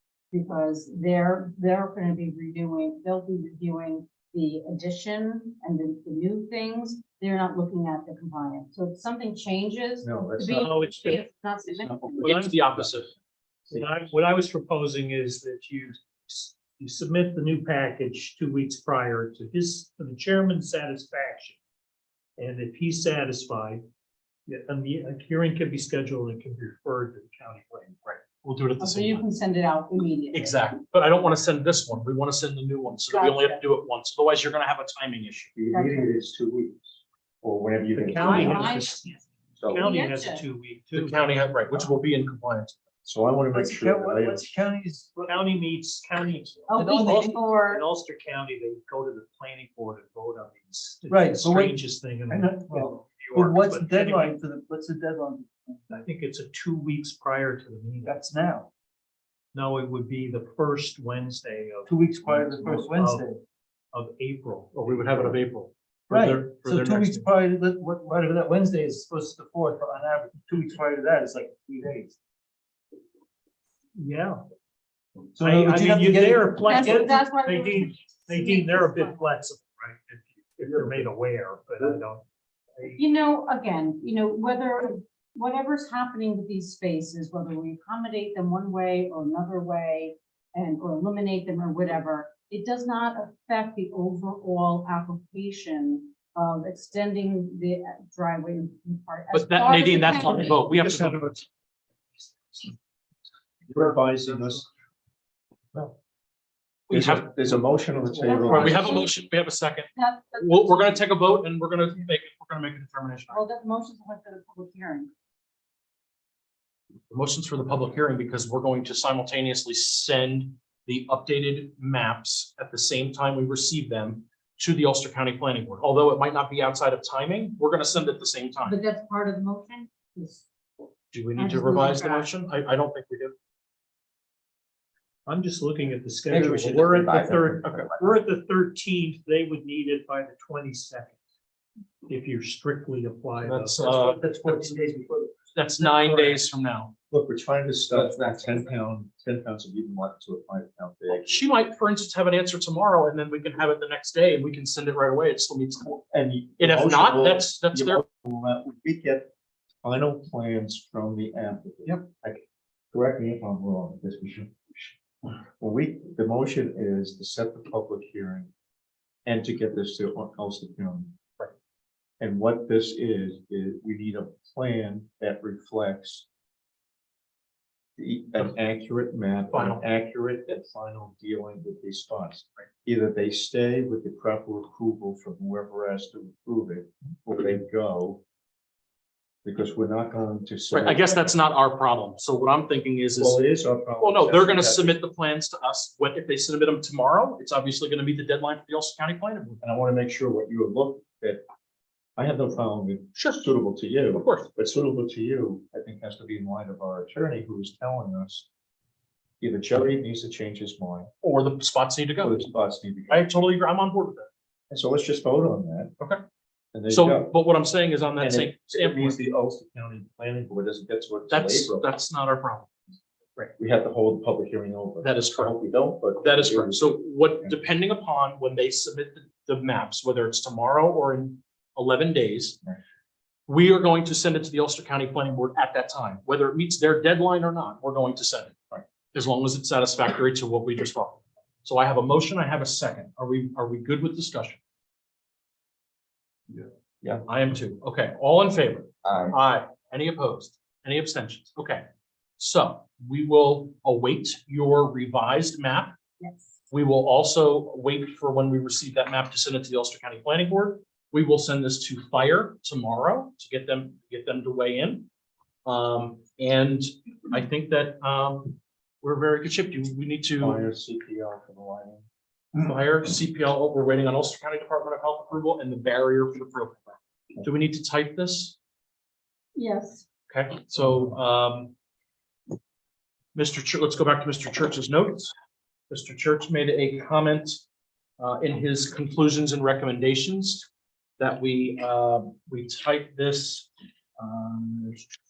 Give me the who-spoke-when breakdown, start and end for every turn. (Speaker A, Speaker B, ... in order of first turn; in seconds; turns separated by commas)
Speaker A: 0.3-12.3, Speaker B: 10.0-10.8, Speaker C: 10.5-11.2, Speaker B: 11.8-12.9, Speaker D: 12.2-13.1, Speaker C: 12.2-12.8, Speaker C: 13.7-21.6, Speaker C: 22.4-23.8, Speaker C: 24.5-28.3, Speaker D: 28.4-29.2, Speaker A: 28.8-30.6, Speaker D: 30.3-35.5, Speaker A: 33.1-33.6, Speaker B: 35.5-38.8, Speaker A: 35.7-36.1, Speaker C: 37.9-41.9, Speaker A: 38.2-39.0, Speaker B: 39.6-39.9, Speaker A: 39.8-40.4, Speaker D: 40.9-42.8, Speaker B: 43.0-44.5, Speaker E: 43.5-45.4, Speaker C: 45.2-54.4, Speaker A: 46.7-47.8, Speaker E: 46.8-47.3, Speaker E: 51.1-56.0, Speaker C: 55.9-58.3, Speaker E: 58.0-58.7, Speaker C: 59.5-63.3, Speaker E: 61.9-63.4, Speaker C: 63.9-65.4, Speaker D: 64.8-65.7, Speaker C: 66.1-67.3, Speaker E: 66.1-72.2, Speaker C: 74.0-74.4, Speaker E: 75.4-76.8, Speaker C: 75.4-82.2, Speaker A: 76.6-79.2, Speaker A: 83.0-100.7, Speaker D: 99.3-101.4, Speaker B: 103.7-104.7, Speaker D: 106.9-107.5, Speaker B: 106.9-109.0, Speaker A: 108.1-109.1, Speaker D: 108.3-113.4, Speaker A: 109.9-111.0, Speaker A: 113.3-115.1, Speaker D: 117.1-128.8, Speaker A: 128.6-130.5, Speaker D: 131.1-133.3, Speaker A: 131.4-132.3, Speaker C: 135.2-141.2, Speaker B: 136.3-138.0, Speaker C: 142.1-146.4, Speaker D: 143.4-144.8, Speaker D: 145.5-146.9, Speaker B: 147.1-151.4, Speaker D: 151.1-156.0, Speaker B: 156.1-159.3, Speaker D: 156.6-158.0, Speaker B: 159.8-162.4, Speaker B: 162.9-164.9, Speaker B: 165.6-168.5, Speaker B: 169.2-171.1, Speaker B: 172.2-176.2, Speaker B: 178.0-188.2, Speaker D: 179.5-179.8, Speaker B: 189.4-191.3, Speaker D: 190.7-193.4, Speaker B: 193.1-194.9, Speaker D: 194.0-199.6, Speaker B: 199.6-201.4, Speaker B: 202.2-208.5, Speaker D: 203.1-203.4, Speaker D: 204.1-204.5, Speaker B: 209.4-211.1, Speaker D: 211.2-212.4, Speaker B: 212.2-213.2, Speaker D: 213.1-214.3, Speaker B: 214.7-215.9, Speaker B: 216.7-217.3, Speaker D: 216.9-219.2, Speaker B: 218.2-221.8, Speaker D: 221.3-222.7, Speaker B: 223.6-227.5, Speaker D: 225.0-225.5, Speaker D: 226.2-232.6, Speaker D: 233.5-238.6, Speaker D: 239.1-244.6, Speaker B: 246.6-247.2, Speaker D: 247.2-251.8, Speaker B: 249.0-249.3, Speaker D: 252.4-255.9, Speaker D: 256.7-265.1, Speaker D: 265.6-270.7, Speaker B: 270.4-272.1, Speaker D: 272.5-278.6, Speaker A: 279.6-280.0, Speaker D: 280.3-281.7, Speaker D: 283.3-285.3, Speaker D: 285.9-287.6, Speaker D: 288.2-290.7, Speaker D: 291.2-295.1